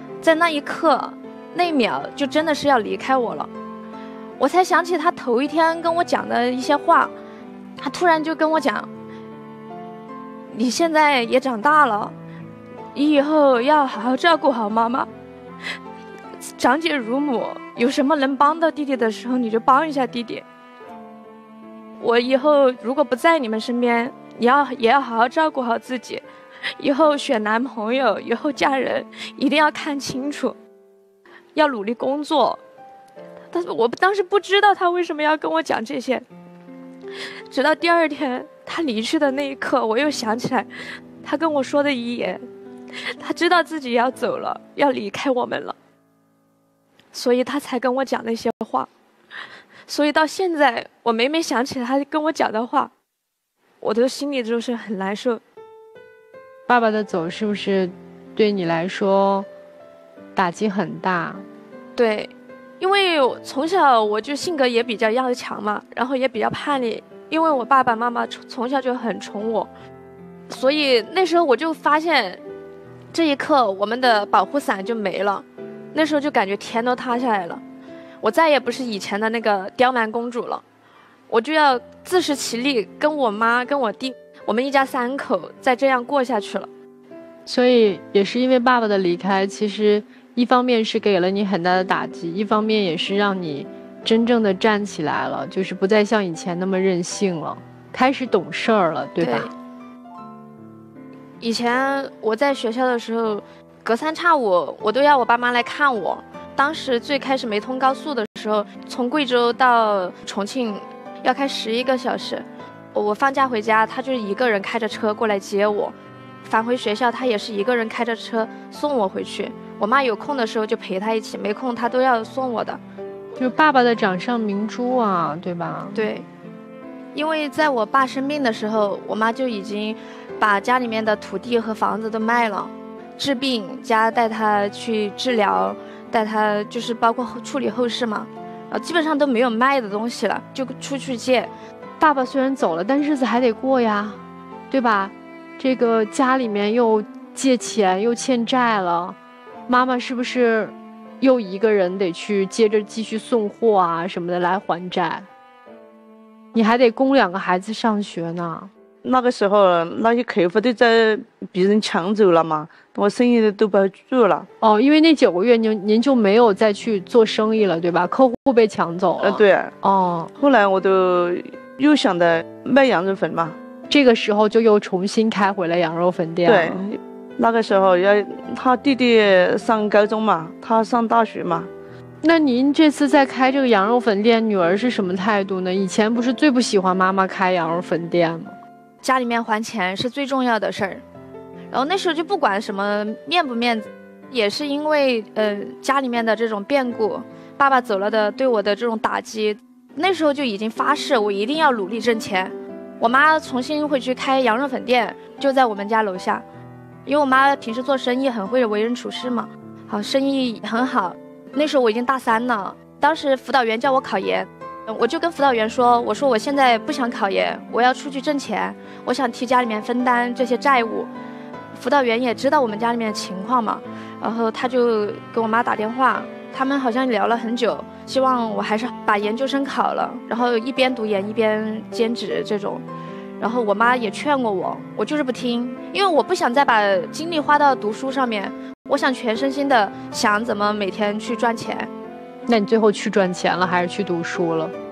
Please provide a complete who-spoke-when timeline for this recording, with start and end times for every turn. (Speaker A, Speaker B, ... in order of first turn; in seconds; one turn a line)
Speaker A: 0.2-3.5
Speaker A: 4.4-7.1
Speaker A: 7.8-8.9
Speaker A: 10.5-12.2
Speaker A: 12.9-15.1
Speaker A: 16.5-20.4
Speaker A: 22.0-26.2
Speaker A: 26.8-30.6
Speaker A: 31.5-32.6
Speaker A: 33.5-36.2
Speaker A: 37.5-40.7
Speaker A: 41.2-42.4
Speaker A: 42.9-45.8
Speaker A: 47.1-48.9
Speaker A: 49.9-52.9
Speaker A: 53.8-55.4
Speaker B: 56.7-59.5
Speaker B: 60.3-61.4
Speaker A: 62.0-69.7
Speaker A: 70.5-72.4
Speaker A: 73.1-77.6
Speaker A: 78.2-80.6
Speaker A: 81.3-86.7
Speaker B: 87.5-99.5
Speaker A: 99.2-99.5
Speaker A: 101.4-122.8
Speaker B: 123.4-126.1
Speaker A: 125.9-126.3
Speaker A: 127.1-141.5
Speaker B: 142.0-155.3
Speaker B: 156.5-158.7
Speaker C: 159.0-164.5
Speaker B: 164.6-170.3
Speaker C: 169.2-169.7
Speaker C: 170.4-173.6
Speaker B: 173.9-176.8
Speaker C: 176.4-181.7
Speaker B: 182.2-188.6
Speaker A: 189.0-191.0
Speaker A: 191.7-206.4
Speaker A: 207.1-221.1
Speaker A: 221.7-232.8
Speaker A: 233.4-241.9
Speaker B: 242.5-244.7